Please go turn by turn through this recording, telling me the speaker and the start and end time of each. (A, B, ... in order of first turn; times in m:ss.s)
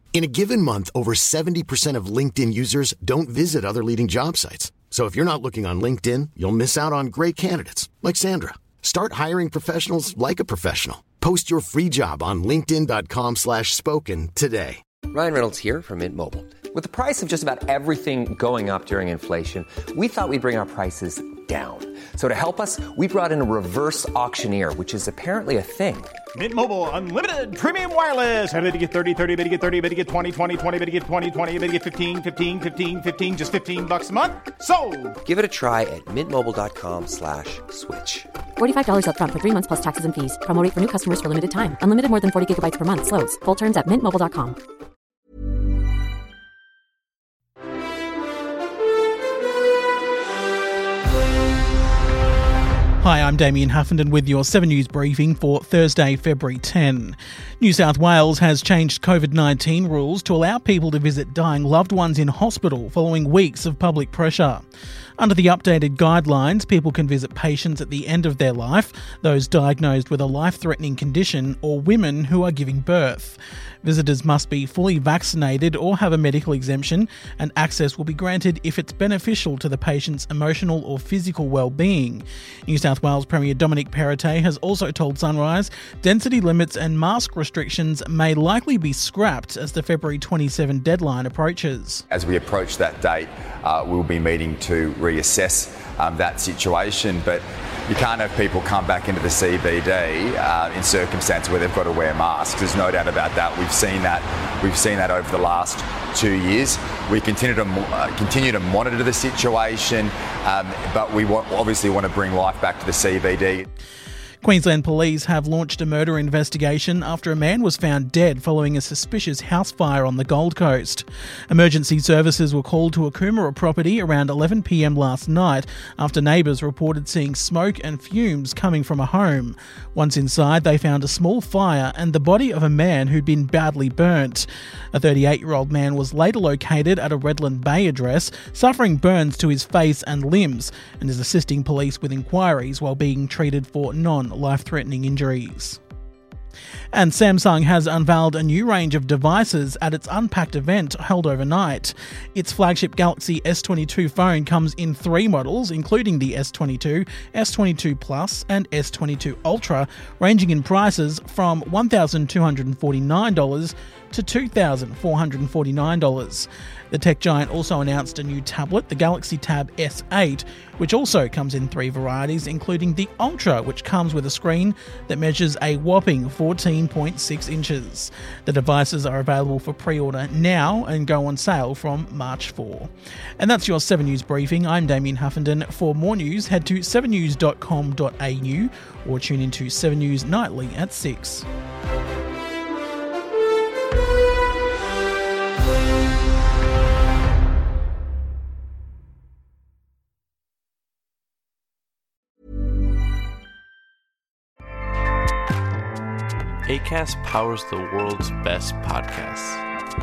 0:00.1-0:14.8 A
0:15.1-0:26.1 B
0:26.4-0:35.1 C
0:35.2-0:38.3 B
0:38.6-0:44.6 D
0:53.0-1:04.7 E
1:05.2-1:32.0 E
1:32.1-1:53.6 F
1:54.4-2:25.8 E
2:26.9-3:11.5 E
3:26.7-3:29.6 G